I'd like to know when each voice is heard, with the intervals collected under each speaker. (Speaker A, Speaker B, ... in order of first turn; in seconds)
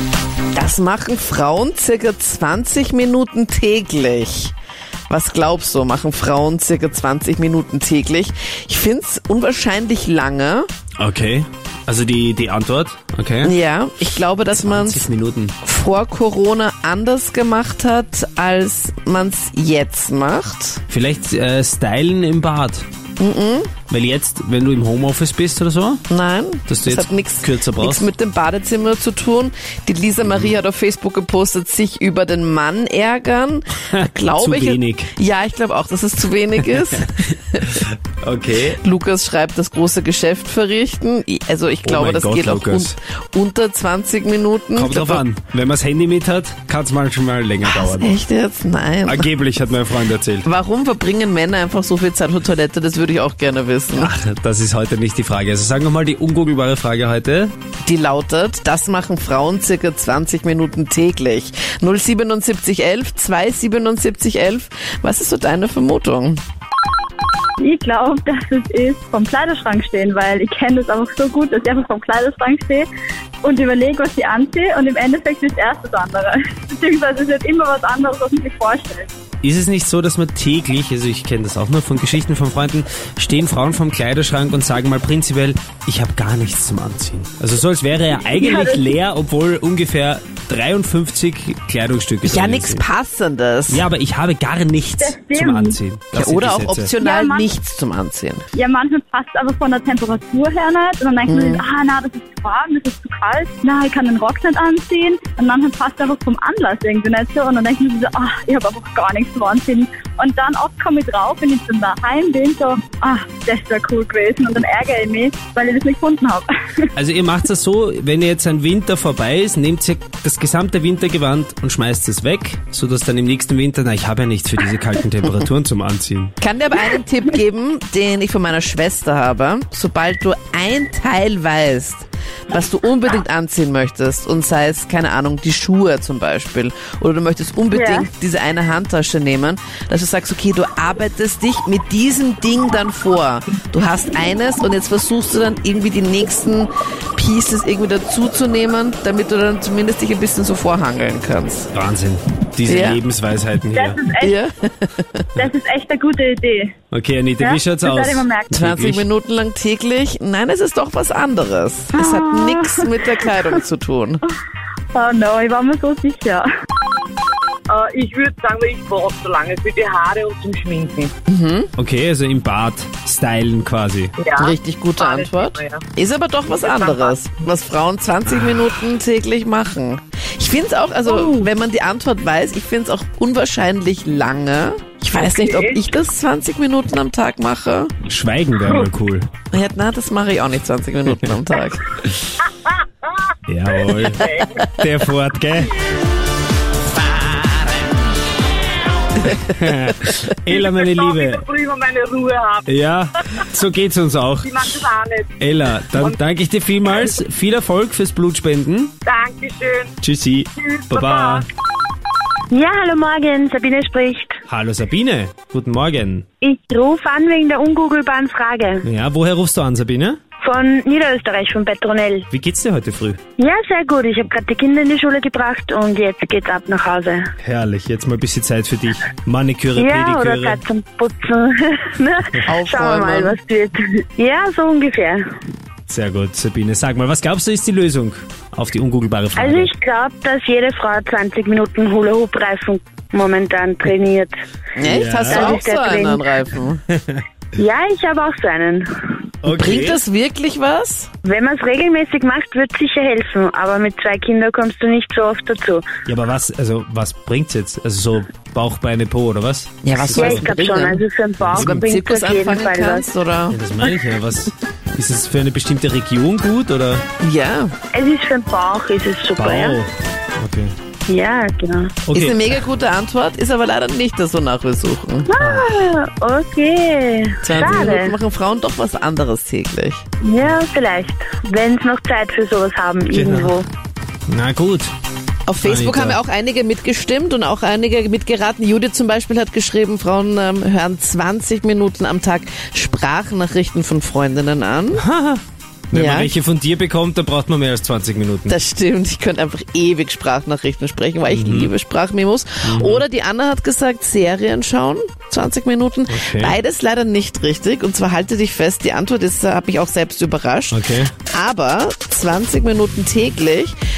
Speaker A: 0.5-4.5, 5.1-10.7, 13.4-15.1, 15.6-20.8, 23.2-23.7, 26.1-37.8, 38.7-45.2, 47.6-49.3, 50.4-54.1, 57.8-66.4, 92.2-93.8, 96.1-98.4, 101.3-101.6, 126.4-151.7, 152.6-153.0, 154.2-155.2, 158.5-164.2, 171.3-171.7, 174.4-187.9, 189.5-191.8, 232.5-233.4, 244.8-246.8, 249.5-251.1, 259.8-261.0, 261.5-263.6, 267.2-267.7, 272.1-275.3, 277.4-280.0, 285.5-295.0, 295.9-296.3, 298.4-313.7
Speaker B: 11.0-13.5, 14.5-15.5, 20.9-22.9, 23.9-26.0, 26.7-28.1, 30.2-30.5, 33.9-35.1, 36.6-38.8, 41.8-42.9, 44.8-48.1, 49.0-50.5, 54.0-57.5, 79.4-92.8, 93.7-96.9, 117.0-126.3, 151.7-154.0, 156.9-159.0, 171.8-174.1, 188.0-189.3, 193.5-195.8, 199.2-201.4, 202.7-204.7, 205.4-208.9, 210.0-211.5, 214.5-216.2, 218.8-220.2, 222.3-223.2, 227.4-230.6, 235.9-239.7, 244.8-245.6, 249.4-250.0, 256.1-260.5, 261.4-261.9, 263.5-267.0, 269.3-270.7, 272.1-272.4, 275.4-275.7, 277.5-277.9, 283.1-283.5, 284.3-284.9, 285.6-286.2, 294.9-298.6, 301.3-301.7, 302.6-303.0, 306.1-306.5, 310.7-311.1
Speaker C: 67.6-72.9, 73.4-79.1, 88.2-88.9, 95.0-95.8, 97.0-97.5, 98.5-116.9, 137.7-138.1, 153.7-154.3, 155.3-156.7, 157.4-158.6, 161.9-163.6, 164.9-166.5
Speaker D: 167.7-171.1, 174.2-175.8, 176.6-177.1, 185.1-185.9, 192.6-193.3, 193.9-194.7, 200.5-202.7, 204.4-205.3, 209.0-209.9, 210.6-211.5
Speaker E: 212.5-214.4, 216.4-218.8, 220.4-222.3, 223.4-227.2, 229.7-235.2, 239.3-244.3, 245.2-246.2, 247.6-249.1, 251.2-255.8, 260.1-263.1, 267.9-269.8, 271.1-271.9, 275.3-278.2, 280.2-283.6